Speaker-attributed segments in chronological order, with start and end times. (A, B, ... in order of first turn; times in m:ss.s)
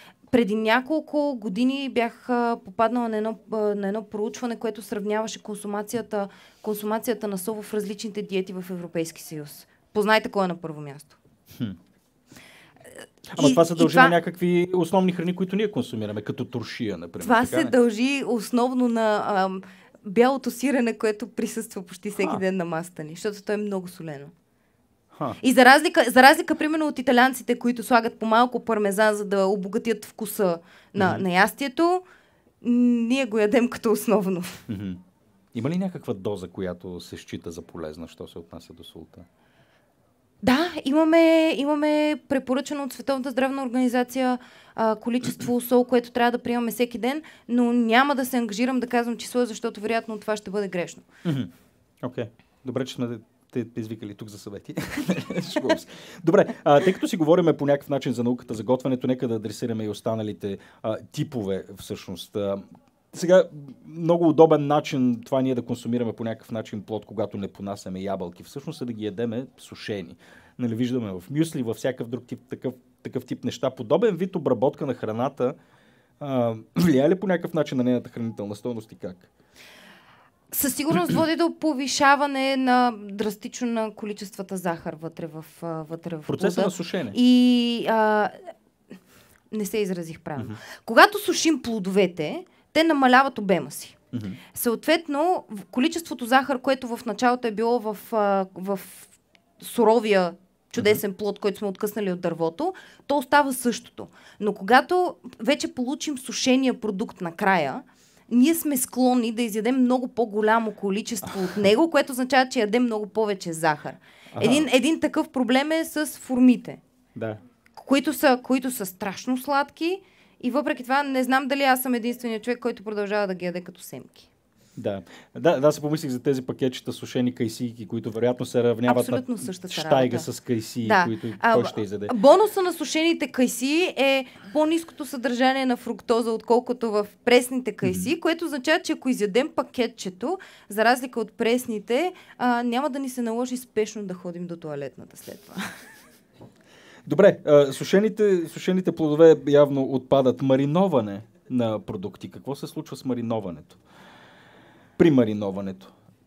0:00.3-0:11.2 A
0:13.3-0:17.7 B
0:13.4-0:14.2 A
0:17.2-0:24.3 A
0:25.1-0:25.4 B
0:25.4-0:32.0 A
0:31.0-0:31.2 B
0:32.6-0:34.6 A
0:34.7-0:35.0 B
0:35.5-0:39.2 B
0:40.4-0:51.0 A
0:51.2-0:51.5 B
0:52.0-1:15.6 B
1:16.2-1:19.3 B
1:20.5-1:28.5 A
1:26.3-1:27.2 B
1:29.5-1:34.0 A
1:34.1-1:34.4 B
1:34.5-1:56.8 A
1:51.3-1:51.6 B
1:54.3-1:54.7 B
1:57.2-1:57.4 B
1:57.8-2:04.3 A
2:04.8-2:12.1 B
2:08.9-2:10.3 A
2:10.8-2:25.7 A
2:27.0-2:33.8 B
2:35.0-2:35.9 B